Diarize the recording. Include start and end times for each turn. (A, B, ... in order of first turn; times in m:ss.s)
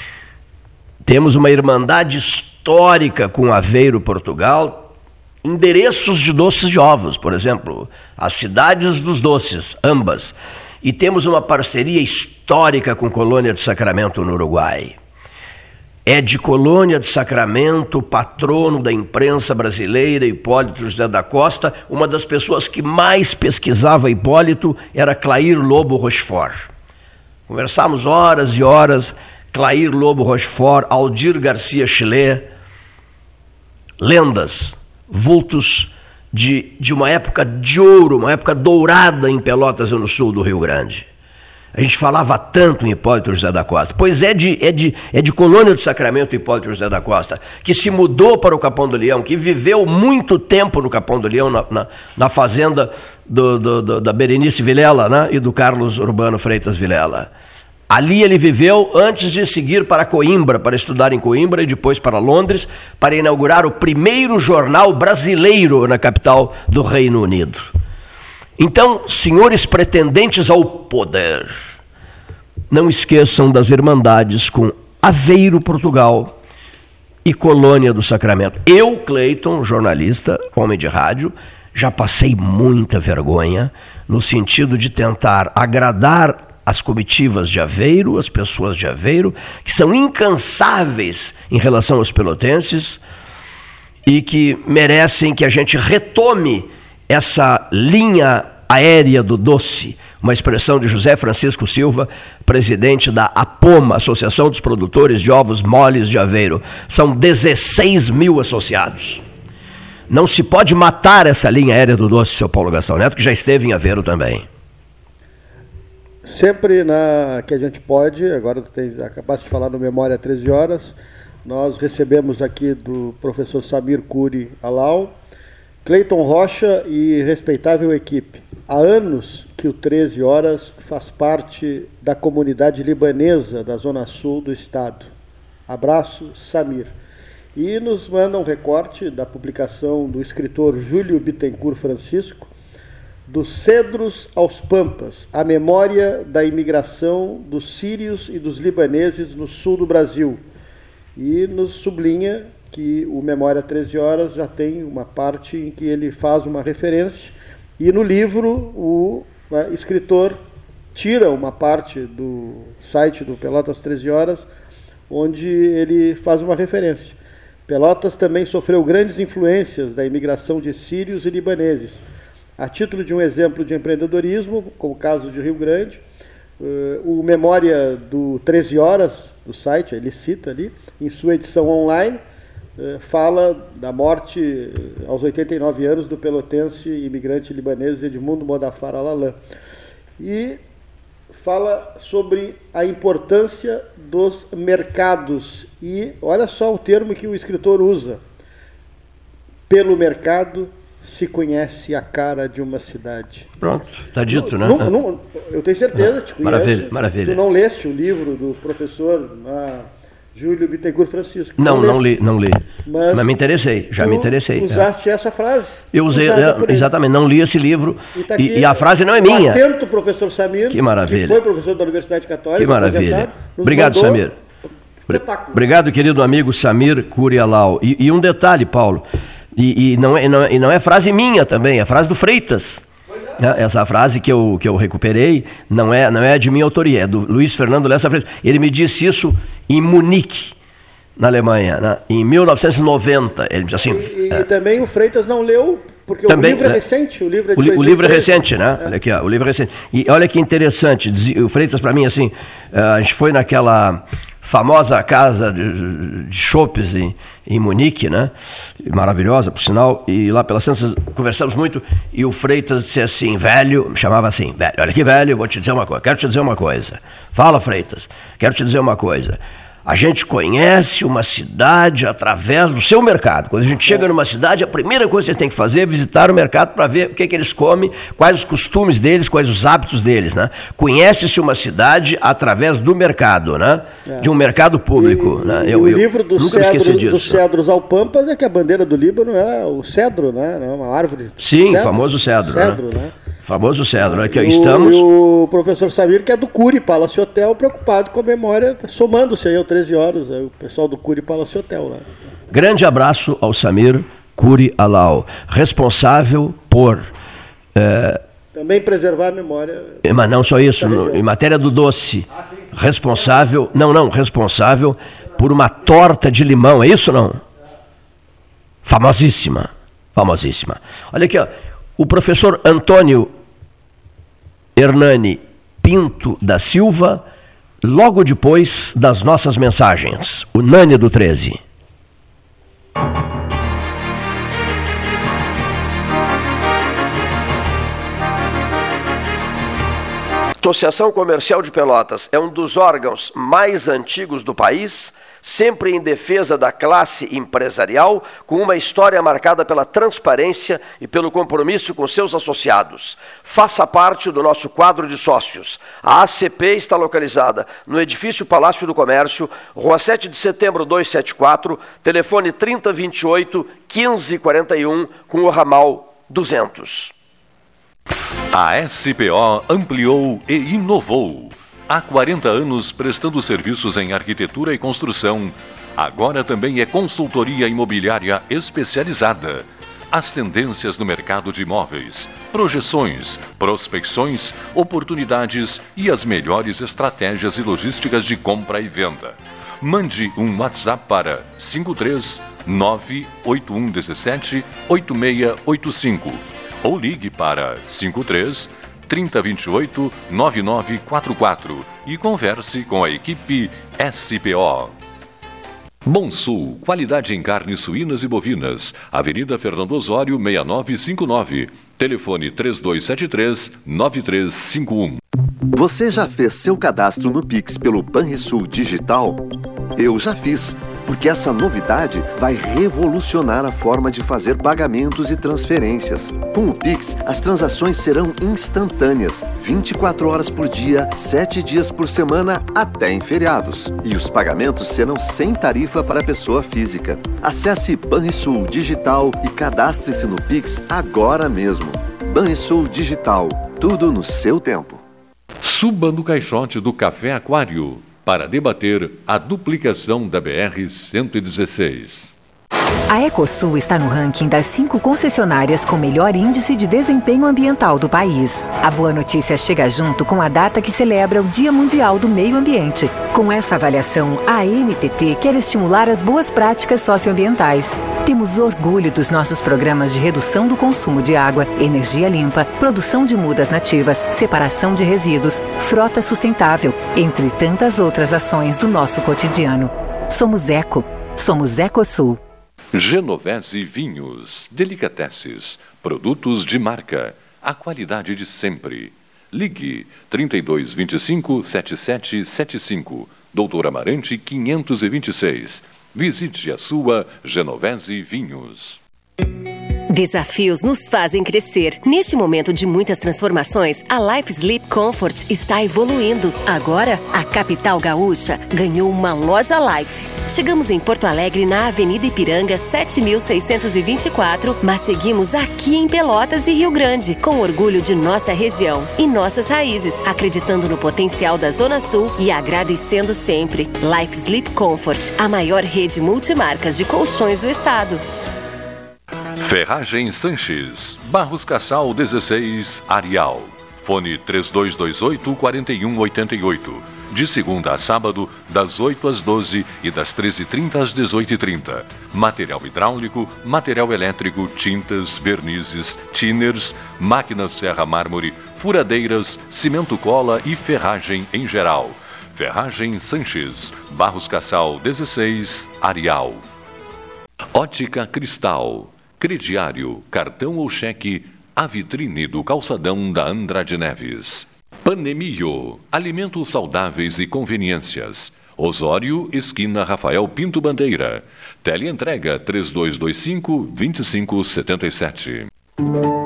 0:01.0-0:04.9 A
0:05.4-0:15.0 A
0:16.1-0:26.7 A
0:27.5-0:32.5 A
0:34.0-0:41.1 A
0:41.7-0:57.3 A
0:57.9-1:07.7 A
1:08.6-1:11.7 A
1:12.7-1:16.4 A
1:17.2-1:33.0 A
1:34.0-1:49.2 A
1:50.1-1:54.4 A
1:56.2-2:05.2 B
2:05.8-2:15.1 B
2:15.7-2:16.9 B
2:17.6-2:22.5 B
2:23.3-2:30.4 B
2:31.2-2:40.4 B
2:41.0-2:44.5 B
2:45.1-2:52.0 B
2:52.6-2:56.0 B
2:56.6-3:02.2 B
3:02.8-3:09.4 B
3:10.2-3:10.6 B
3:11.3-3:18.2 B
3:19.7-3:23.5 B
3:23.6-3:24.9 A
3:24.3-3:32.2 B
3:26.4-3:27.4 A
3:31.6-3:34.9 A
3:32.7-3:33.4 B
3:34.0-3:36.9 B
3:35.9-3:39.6 A
3:38.1-3:44.2 B
3:40.7-3:41.4 A
3:42.6-3:44.3 A
3:45.1-3:45.6 B
3:45.1-3:52.8 A
3:53.4-4:00.6 A
4:01.2-4:04.4 A
4:03.8-4:08.9 B
4:06.3-4:06.8 A
4:07.6-4:47.4 A
4:44.1-4:44.4 B
4:45.0-4:53.2 B
4:51.4-4:52.8 A
4:53.4-4:55.0 A
4:54.0-5:02.1 B
5:02.5-5:07.1 A
5:07.7-5:08.2 A
5:08.5-5:11.2 B
5:10.0-5:17.4 A
5:18.8-5:23.3 A
5:24.8-5:27.2 A
5:27.8-5:31.6 A
5:40.6-6:07.1 A
6:08.5-6:44.9 C
6:46.0-6:55.2 C
6:55.7-6:59.4 D
7:00.0-7:25.0 D
7:25.6-7:32.3 C
7:33.1-8:02.4 E
8:02.9-8:19.0 C
8:20.1-8:48.2 F
8:49.6-9:16.6 C
9:17.7-9:35.7 C